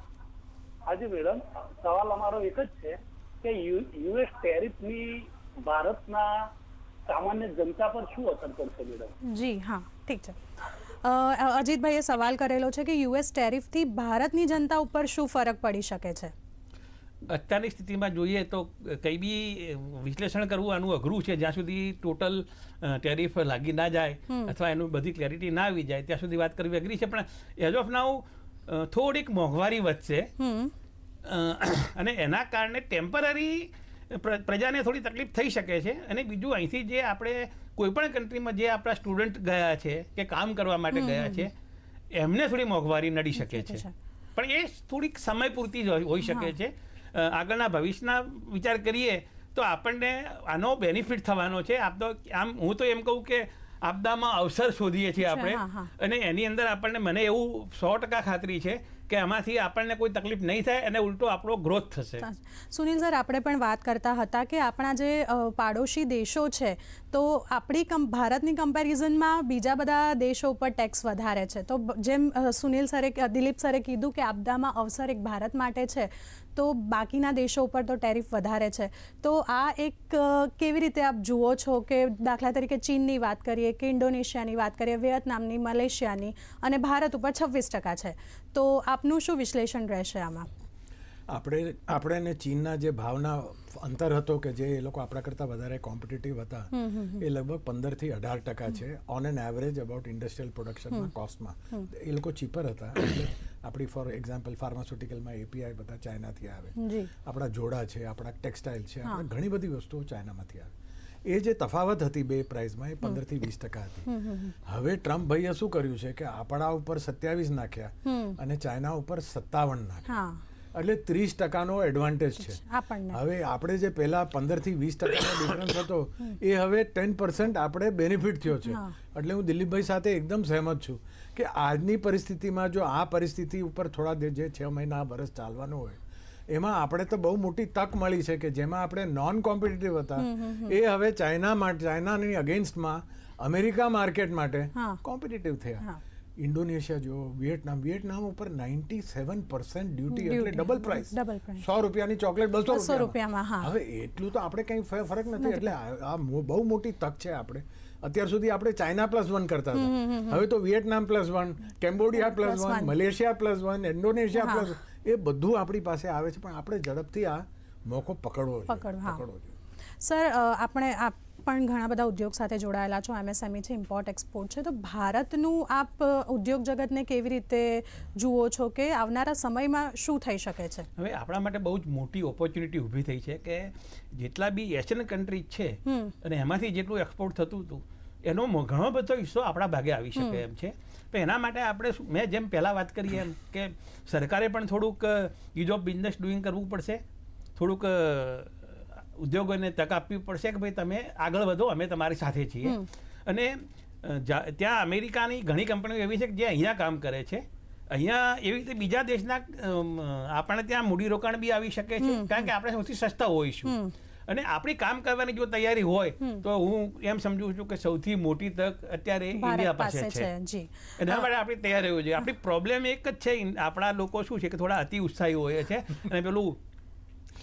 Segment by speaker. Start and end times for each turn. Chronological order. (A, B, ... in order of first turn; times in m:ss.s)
0:00.9-0:06.4 A
0:07.1-0:09.1 A
0:09.3-0:16.3 B
0:17.3-0:30.3 C
0:30.4-0:30.7 B
0:31.2-0:41.5 C
0:40.9-0:41.5 B
0:42.1-0:43.8 C
0:43.4-0:43.9 B
0:44.4-1:02.2 C
0:46.2-0:46.5 B
0:55.2-0:55.9 B
1:02.2-1:30.5 B
1:31.3-1:50.7 D
1:36.7-1:37.2 B
1:46.8-1:47.1 B
1:51.2-1:54.1 D
1:54.1-1:54.5 B
1:54.6-2:00.1 D
1:58.1-1:58.4 B
2:00.1-2:00.4 B
2:00.7-2:16.0 D
2:02.4-2:03.2 B
2:08.6-2:08.9 B
2:16.5-2:25.8 D
2:20.2-2:20.7 B
2:26.4-2:49.5 D
2:30.1-2:31.6 B
2:32.7-2:33.7 B
2:35.4-2:35.7 B
2:39.7-2:40.4 B
2:42.1-2:42.9 B
2:44.3-2:44.7 B
2:48.7-2:49.2 B
2:50.0-3:00.9 B
3:01.0-3:17.0 C
3:05.8-3:06.1 B
3:17.6-3:33.7 C
3:32.0-3:32.5 B
3:33.7-3:33.9 B
3:34.3-3:40.3 C
3:39.4-3:41.3 B
3:41.0-3:46.6 C